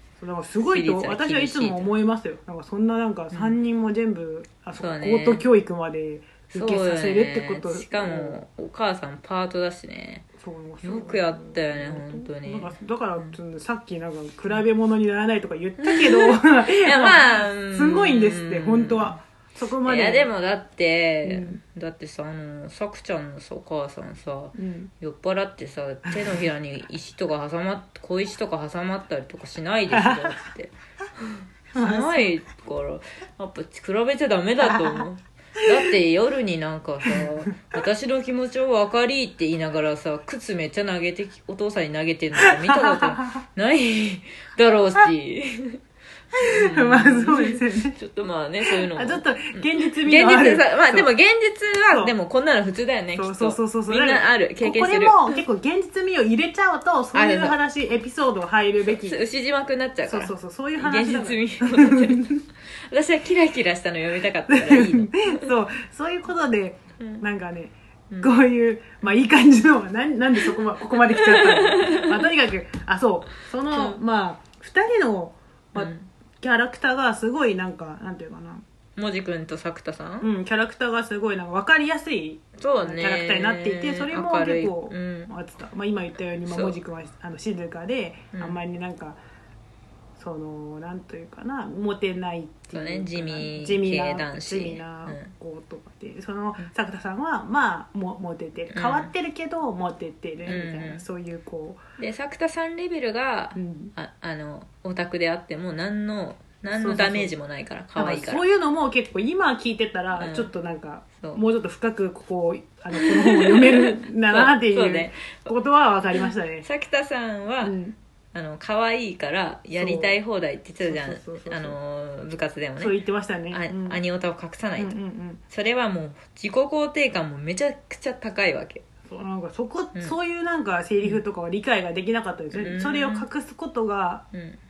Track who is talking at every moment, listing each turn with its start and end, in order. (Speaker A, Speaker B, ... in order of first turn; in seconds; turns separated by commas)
Speaker A: 0.2-8.4, Speaker B: 0.6-1.9, Speaker B: 3.3-3.6, Speaker B: 4.8-5.5, Speaker B: 6.5-10.3, Speaker A: 10.4-20.3, Speaker B: 10.8-13.4, Speaker B: 15.8-19.2, Speaker B: 19.8-45.8, Speaker A: 21.2-21.6, Speaker A: 24.6-24.9, Speaker A: 29.9-30.3, Speaker A: 31.7-32.3, Speaker A: 34.7-35.0, Speaker A: 37.0-37.3, Speaker A: 42.4-43.4, Speaker B: 46.4-55.4, Speaker A: 46.4-48.0, Speaker A: 48.6-51.1, Speaker A: 53.1-59.2, Speaker B: 57.1-57.6, Speaker B: 58.8-65.5, Speaker A: 60.1-62.4, Speaker A: 64.5-78.6, Speaker B: 71.1-72.2, Speaker B: 73.7-74.0, Speaker B: 75.8-76.1, Speaker B: 79.0-80.3, Speaker A: 80.2-89.2, Speaker B: 82.6-85.3, Speaker B: 86.5-86.8, Speaker A: 90.2-101.8, Speaker B: 92.7-95.3, Speaker B: 98.7-99.1, Speaker B: 100.5-101.0, Speaker B: 102.0-108.5, Speaker A: 103.6-103.9, Speaker A: 106.7-107.3, Speaker A: 108.0-116.7, Speaker B: 110.2-110.5, Speaker B: 112.9-115.5, Speaker B: 116.6-117.8, Speaker A: 117.6-118.0, Speaker B: 118.3-123.0, Speaker A: 119.8-120.2, Speaker A: 120.8-121.8, Speaker A: 122.8-124.0, Speaker B: 123.5-125.0, Speaker A: 124.8-125.4, Speaker B: 125.5-128.8, Speaker A: 129.1-134.3, Speaker B: 132.5-133.3, Speaker B: 134.3-134.6